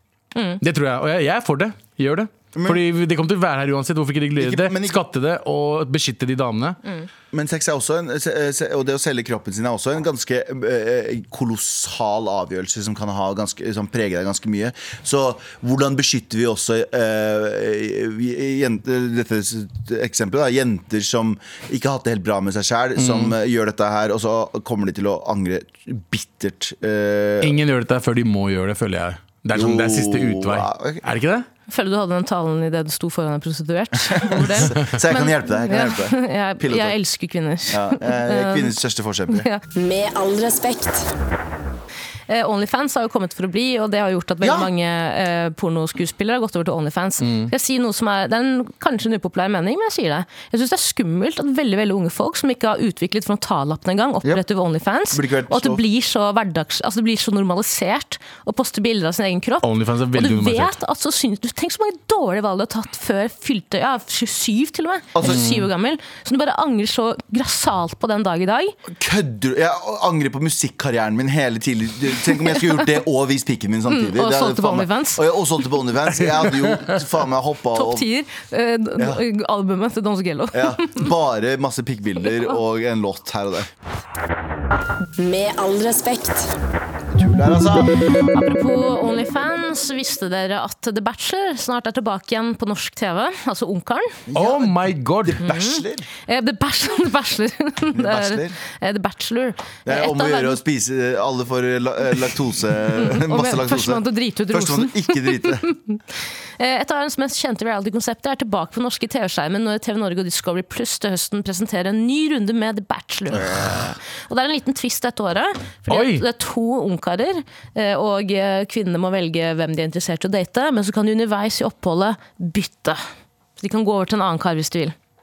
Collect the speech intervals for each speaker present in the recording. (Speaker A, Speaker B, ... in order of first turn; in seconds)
Speaker A: 0.3-0.6, 31.7-38.7, 39.3-39.6, 42.3-68.7, 73.9-75.2, 77.7-81.1, 88.2-94.2, 95.4-100.6, 103.0-106.0, 106.6-123.0, 123.6-124.9
Speaker B: 0.6-6.8, 22.9-23.3, 27.4-31.5, 47.2-47.5, 59.6-60.8, 65.2-65.7, 76.3-77.0, 94.3-95.4, 115.9-116.2
Speaker C: 2.5-2.8, 4.4-5.0, 7.3-27.6, 29.5-31.0, 34.1-37.0, 37.7-39.5, 44.4-44.7, 55.1-55.8, 65.1-65.4, 68.9-78.1, 79.0-79.2, 80.5-83.7, 87.1-88.0, 94.3-96.1, 97.9-98.6, 99.8-105.7, 113.3-113.9
Speaker D: 39.7-41.1, 85.2-86.5